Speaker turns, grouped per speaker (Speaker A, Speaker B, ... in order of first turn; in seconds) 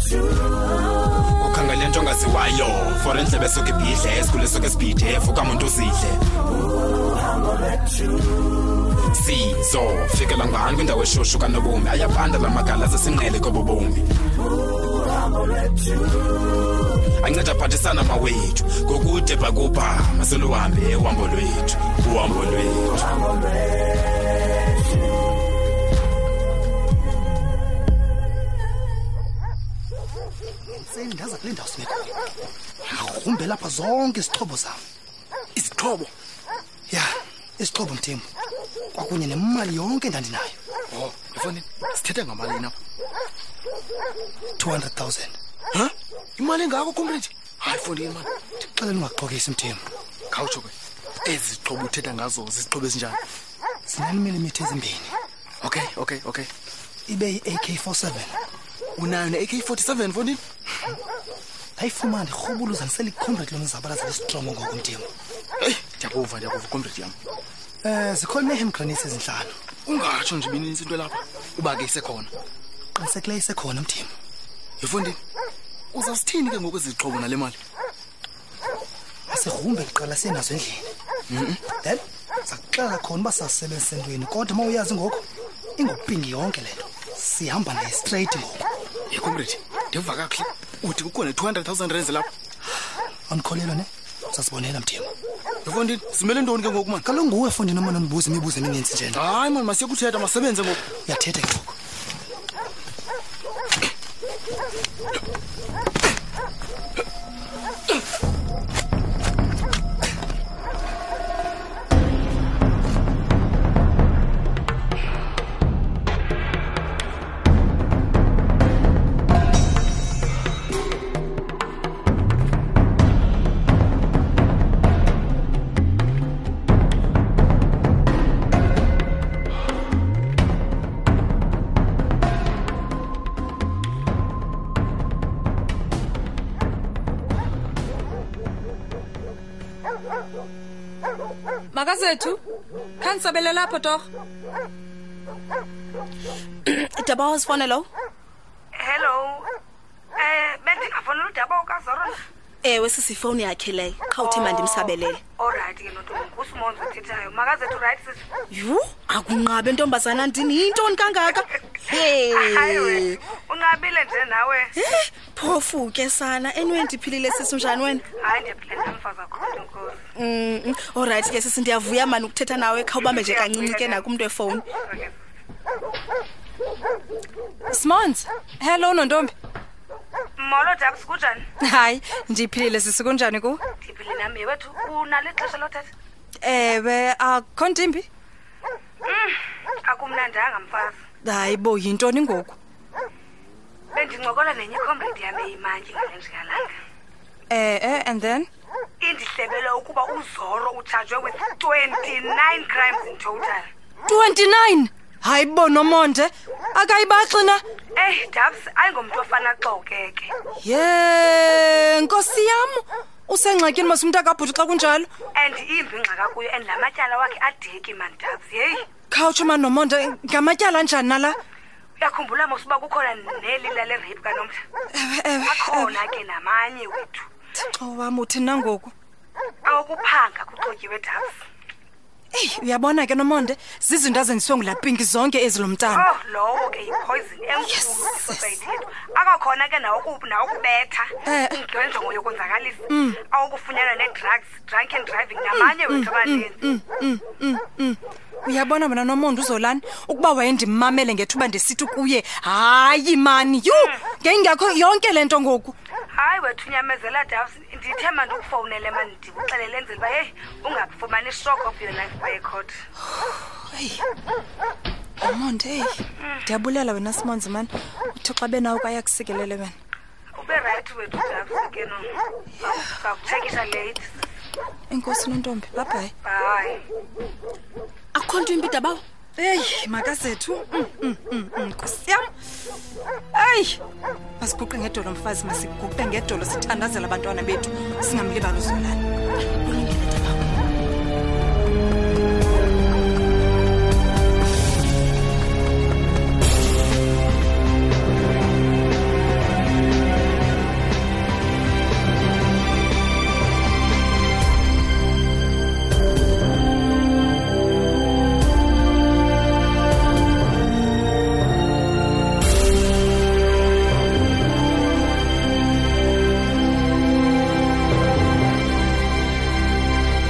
Speaker A: 1.4-6.2, 9.1-14.1, 17.2-23.1
Speaker B: 30.7-32.1, 32.8-34.8, 36.9-38.3, 38.9-40.6, 44.6-45.4, 48.6-49.8, 53.9-55.1, 57.1-58.4, 61.8-65.1, 67.8-69.5, 72.9-74.1, 79.3-80.9, 81.7-85.2, 85.8-88.7, 93.3-95.1, 97.0-99.2, 101.0-101.8
Speaker C: 35.5-36.1, 40.9-42.7, 45.7-48.3, 50.3-50.7, 51.2-53.2, 55.6-56.5, 59.0-60.4, 65.6-67.2, 69.8-72.3, 74.8-75.2, 75.9-77.6, 81.3-81.6, 89.1-92.3, 95.6-97.0, 99.1-100.8
Speaker D: 141.7-142.4, 143.0-144.1, 177.7-179.3, 181.6-183.6, 186.4-188.1, 191.2-192.6, 197.5-198.5, 204.1-207.6, 210.6-215.1, 219.1-221.4, 224.9-225.9, 227.6-228.9, 232.3-236.1, 237.6-238.5, 241.2-241.6, 242.9-243.2, 245.5-255.7, 263.3-264.0, 265.2-269.7, 274.9-276.1, 279.4-282.3, 283.3-283.8, 284.4-289.0
Speaker E: 146.7-147.9, 152.6-155.2, 158.5-163.2, 164.8-168.0, 170.2-174.7, 278.1-279.0
Speaker F: 148.7-149.5, 150.2-152.2, 155.4-158.2, 162.3-164.7, 168.2-170.0, 173.1-174.0, 174.8-175.2, 180.4-181.4, 183.8-185.9, 189.0-191.0, 193.9-196.8, 199.0-203.7, 207.9-210.3, 215.3-218.8, 222.0-224.6, 225.5-227.3, 229.6-231.4, 235.9-246.7, 256.1-262.8, 270.3-274.1, 276.2-276.8